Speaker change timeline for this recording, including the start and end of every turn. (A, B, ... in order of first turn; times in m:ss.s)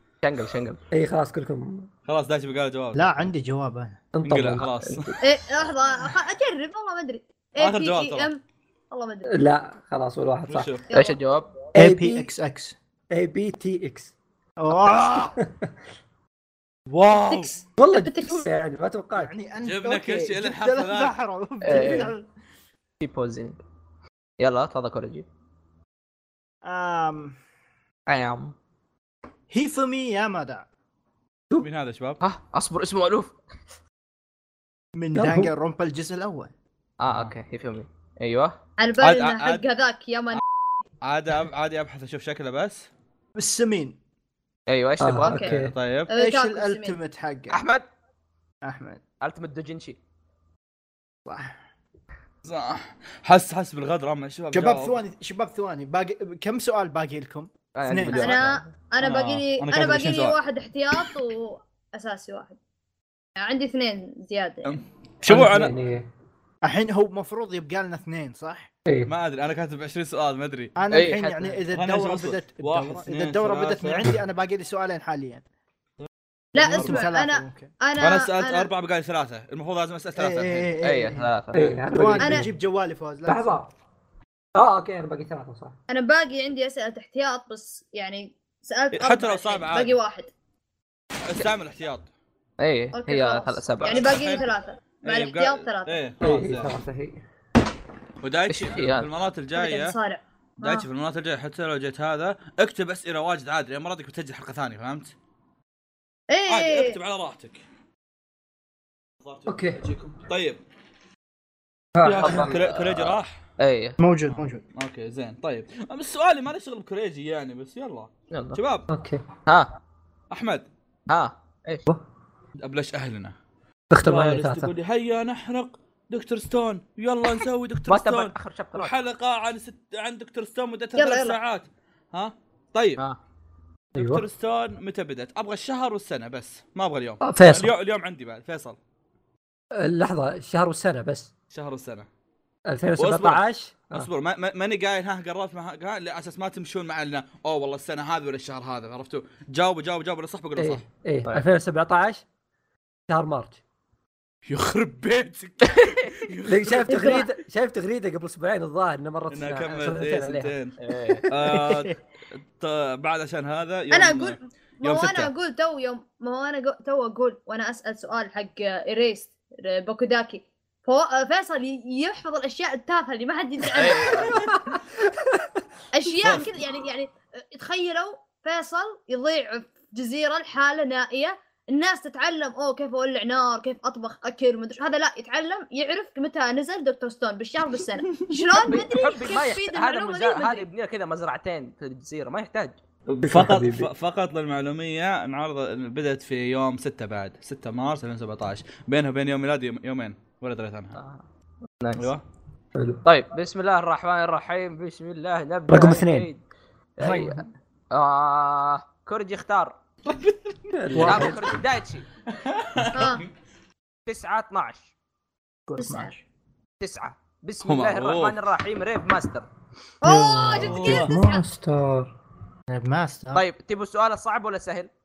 0:00.2-0:00.8 A
0:00.9-0:01.9 B
0:02.0-0:03.2 C
0:02.9-0:04.0 D
0:04.1-0:04.7 B
0:04.2-0:05.1 C
0:04.6-0:05.2 A
0:05.2-0:09.3 E
0:07.6-0:08.3 C
0:09.3-0:10.7 B
0:10.5-0:10.8 C
0:10.9-0:11.2 E
0:10.9-0:11.5 A
0:11.7-0:12.3 B
0:11.8-0:12.7 D
0:13.1-0:14.1 B
0:14.6-0:15.4 D
0:15.3-0:15.7 B
0:16.9-0:17.5 C
0:17.1-0:18.4 E
0:17.8-0:19.3 B
0:19.1-0:22.3 D
0:19.6-0:21.2 C
0:21.6-0:22.1 A
0:23.0-0:23.6 A
0:24.4-0:25.2 A
0:26.6-0:27.4 D
0:28.1-0:28.5 A
0:29.5-0:30.7 D
0:31.6-0:32.2 C
0:32.2-0:33.4 A
0:35.0-0:36.5 D
0:35.1-0:35.5 B
0:37.0-0:38.6 A
0:38.8-0:40.4 E
0:39.0-0:39.6 C
0:41.0-0:42.9 C
0:43.4-0:44.0 D
0:44.7-0:45.4 A
0:45.0-0:45.7 B
0:45.2-0:45.6 E
0:45.4-0:46.1 C
0:46.1-0:47.0 E
0:46.2-0:47.6 D
0:47.5-0:47.8 A
0:48.6-0:49.0 D
0:49.2-0:50.0 A
0:51.2-0:51.5 D
0:52.4-0:55.0 C
0:54.5-0:58.4 D
0:57.8-0:58.7 A
0:58.1-1:02.6 E
0:59.0-1:00.4 C
1:03.4-1:04.8 E
1:04.6-1:05.7 C
1:05.2-1:06.1 B
1:06.6-1:08.7 D
1:08.8-1:09.1 B
1:09.1-1:10.7 C
1:10.8-1:15.4 D
1:10.9-1:11.6 A
1:11.7-1:14.2 C
1:16.5-1:17.7 D
1:16.5-1:18.7 E
1:16.6-1:17.0 C
1:18.0-1:20.7 C
1:20.2-1:21.3 D
1:20.8-1:21.8 A
1:21.5-1:22.5 B
1:21.9-1:23.6 D
1:22.2-1:22.5 E
1:23.2-1:23.7 B
1:24.5-1:25.8 B
1:25.9-1:30.3 E
1:28.9-1:30.0 C
1:31.2-1:32.1 C
1:32.6-1:34.1 A
1:32.9-1:36.0 E
1:33.8-1:34.5 C
1:35.0-1:36.7 C
1:36.2-1:37.2 B
1:38.2-1:40.0 C
1:38.5-1:39.1 A
1:39.5-1:40.9 E
1:40.6-1:45.1 C
1:46.3-1:47.0 E
1:46.5-1:47.6 C
1:49.2-1:50.6 C
1:49.5-1:49.8 B
1:51.9-1:52.6 B
1:52.0-1:53.4 C
1:52.1-1:54.0 A
1:54.0-1:54.6 D
1:54.3-1:58.9 C
1:58.3-1:58.6 A
1:58.9-1:59.2 B
2:00.3-2:00.6 C
2:01.1-2:01.9 A
2:02.6-2:03.3 C
2:03.9-2:04.7 B
2:04.0-2:13.0 C
2:07.9-2:08.9 A
2:11.0-2:11.4 E
2:13.9-2:14.2 B
2:13.9-2:18.8 C
2:17.2-2:17.7 B
2:19.7-2:21.3 B
2:21.5-2:22.1 C
2:22.7-2:24.1 B
2:23.0-2:30.8 C
2:30.6-2:32.2 B
2:33.1-2:33.6 B
2:34.4-2:37.2 C
2:35.6-2:36.2 A
2:36.4-2:40.5 B
2:36.9-2:37.3 E
2:39.3-2:40.8 C
2:40.8-2:41.3 A
2:41.3-2:45.3 C
2:41.5-2:41.9 D
2:43.9-2:54.6 E
2:53.7-2:54.3 A
2:54.3-2:55.6 B
2:55.9-3:10.6 E
2:56.2-2:56.5 C
3:08.6-3:12.8 A
3:13.1-3:21.0 C
3:13.2-3:13.9 B
3:21.0-3:21.2 A
3:21.8-3:22.1 A
3:22.0-3:22.2 C
3:22.7-3:23.0 B
3:23.0-3:26.4 A
3:25.7-3:26.3 B
3:27.0-3:29.7 A
3:27.0-3:27.5 D
3:30.1-3:31.4 C
3:30.7-3:31.5 B
3:31.0-3:32.1 A
3:32.3-3:33.3 C
3:32.9-3:33.2 E
3:34.0-3:34.9 A
3:35.7-3:36.2 D
3:35.8-3:36.1 E
3:36.8-3:39.5 A
3:37.6-3:38.4 C
3:40.0-3:41.4 E
3:40.1-3:42.1 B
3:40.6-3:41.1 C
3:42.7-3:43.4 D
3:43.3-3:44.9 A